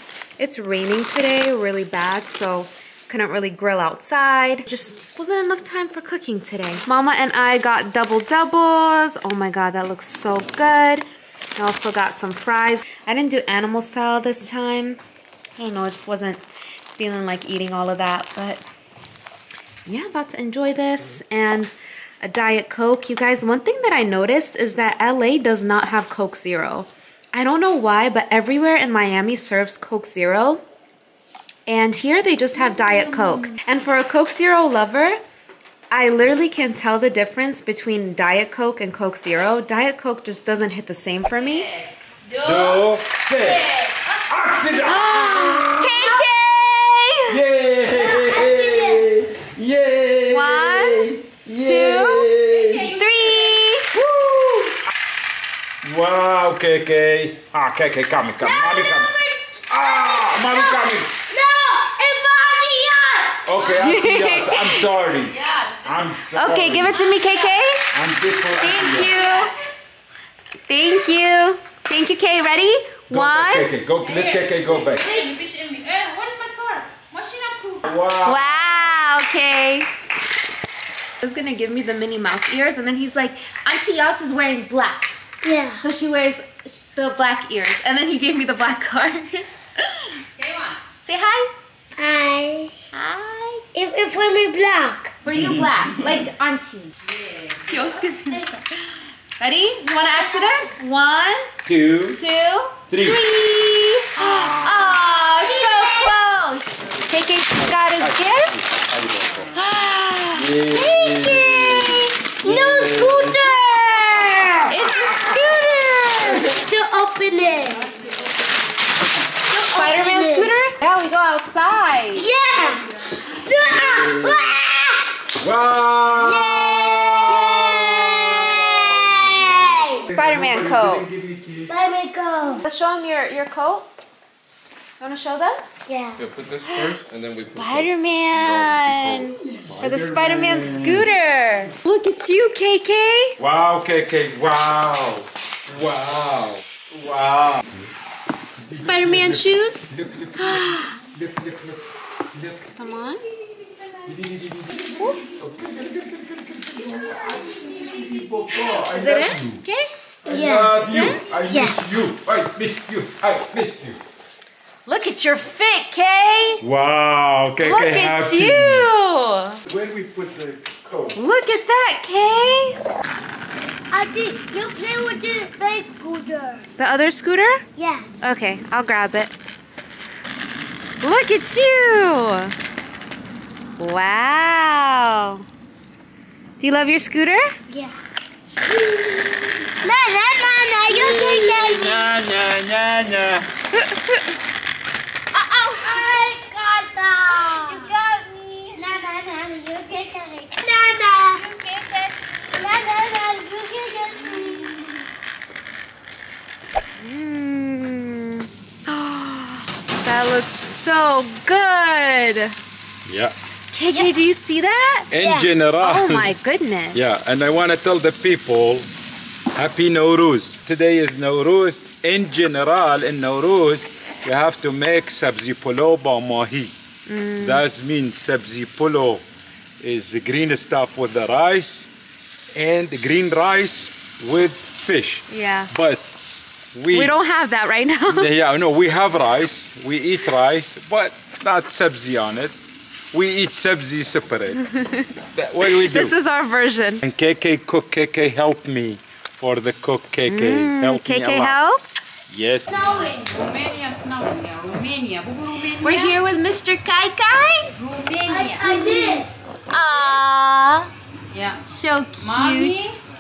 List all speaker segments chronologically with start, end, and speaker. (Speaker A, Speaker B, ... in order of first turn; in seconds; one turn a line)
Speaker A: 0.4-11.0
Speaker A: 11.6-15.0
Speaker A: 15.6-16.4
Speaker A: 17.0-18.6
Speaker A: 19.9-30.6
Speaker A: 31.7-35.2
Speaker B: 32.6-33.5
Speaker A: 35.9-41.7
Speaker B: 41.5-41.8
Speaker B: 42.3-42.8
Speaker C: 42.4-43.7
Speaker B: 43.4-44.0
Speaker C: 44.3-46.1
Speaker A: 44.9-47.4
Speaker D: 45.8-46.2
Speaker C: 47.3-52.9
Speaker D: 47.9-49.1
Speaker A: 50.3-52.3
Speaker B: 52.5-53.6
Speaker A: 52.9-53.9
Speaker C: 53.9-54.8
Speaker C: 55.8-59.1
Speaker D: 58.5-59.1
Speaker C: 59.7-61.1
Speaker D: 59.8-63.4
Speaker C: 63.4-67.0
Speaker A: 63.7-64.8
Speaker B: 65.2-67.6
Speaker A: 66.3-67.9
Speaker C: 67.9-69.1
Speaker A: 68.6-69.7
Speaker B: 68.7-69.7
Speaker A: 70.7-73.7
Speaker C: 73.1-75.1
Speaker B: 74.0-77.9
Speaker C: 77.8-78.9
Speaker A: 78.2-79.9
Speaker A: 81.2-85.2
Speaker D: 85.4-85.8
Speaker A: 85.8-90.0
Speaker B: 90.3-90.8
Speaker A: 91.0-91.5
Speaker D: 92.0-92.8
Speaker A: 92.9-93.7
Speaker D: 93.7-95.2
Speaker A: 95.2-96.9
Speaker C: 95.3-96.2
Speaker B: 97.0-98.4
Speaker A: 97.7-98.7
Speaker A: 99.4-101.5
Speaker C: 101.7-102.2
Speaker A: 102.1-108.6
Speaker C: 102.9-103.2
Speaker C: 104.2-105.0
Speaker D: 105.5-106.2
Speaker C: 107.7-109.5
Speaker A: 109.5-112.2
Speaker C: 110.3-115.3
Speaker D: 111.1-111.5
Speaker D: 112.4-115.2
Speaker A: 114.7-116.5
Speaker D: 116.3-117.9
Speaker D: 119.5-120.5
Speaker A: 119.7-122.3
Speaker D: 122.1-125.1
Speaker C: 123.6-124.5
Speaker C: 125.4-129.4
Speaker D: 126.1-130.1
Speaker C: 130.0-131.7
Speaker A: 130.1-131.1
Speaker D: 131.7-132.6
Speaker A: 132.6-133.9
Speaker A: 135.0-135.7
Speaker D: 135.9-136.2
Speaker E: 136.2-139.3
Speaker A: 136.7-143.4
Speaker C: 139.7-141.1
Speaker C: 143.4-147.9
Speaker A: 146.7-147.2
Speaker C: 148.6-152.8
Speaker A: 148.7-150.9
Speaker A: 152.8-153.2
Speaker C: 154.0-159.6
Speaker A: 158.8-160.3
Speaker D: 160.2-161.8
Speaker C: 160.2-164.0
Speaker A: 160.8-161.2
Speaker A: 164.8-166.6
Speaker C: 166.6-168.9
Speaker A: 167.6-169.6
Speaker C: 169.7-171.2
Speaker A: 171.2-172.8
Speaker D: 173.9-176.7
Speaker A: 176.8-177.6
Speaker D: 177.8-178.1
Speaker A: 178.2-179.3
Speaker A: 181.0-182.5
Speaker A: 183.8-185.4
Speaker A: 186.6-187.5
Speaker D: 187.7-187.9
Speaker D: 188.7-192.1
Speaker C: 190.8-193.5
Speaker D: 195.3-197.9
Speaker A: 195.5-196.1
Speaker A: 197.3-198.8
Speaker D: 198.7-201.4
Speaker A: 201.4-202.5
Speaker D: 202.5-204.8
Speaker A: 207.0-212.5
Speaker C: 213.0-213.3
Speaker A: 213.7-215.1
Speaker C: 215.1-216.4
Speaker D: 215.1-215.5
Speaker A: 215.8-217.1
Speaker C: 216.9-218.9
Speaker C: 219.5-226.7
Speaker A: 227.1-227.6
Speaker C: 227.4-229.2
Speaker C: 229.8-231.9
Speaker C: 232.5-236.1
Speaker A: 235.3-235.7
Speaker C: 236.7-237.2
Speaker A: 236.9-238.3
Speaker C: 238.1-242.6
Speaker C: 243.1-244.6
Speaker A: 244.6-245.1
Speaker C: 245.3-246.2
Speaker A: 245.6-247.0
Speaker C: 247.0-251.6
Speaker A: 250.3-252.0
Speaker C: 252.3-252.7
Speaker D: 252.7-253.4
Speaker B: 252.7-256.2
Speaker A: 255.8-257.8
Speaker B: 257.8-259.0
Speaker D: 258.2-259.3
Speaker A: 258.7-259.0
Speaker A: 259.7-260.9
Speaker B: 261.3-261.6
Speaker A: 261.6-262.9
Speaker B: 262.2-263.0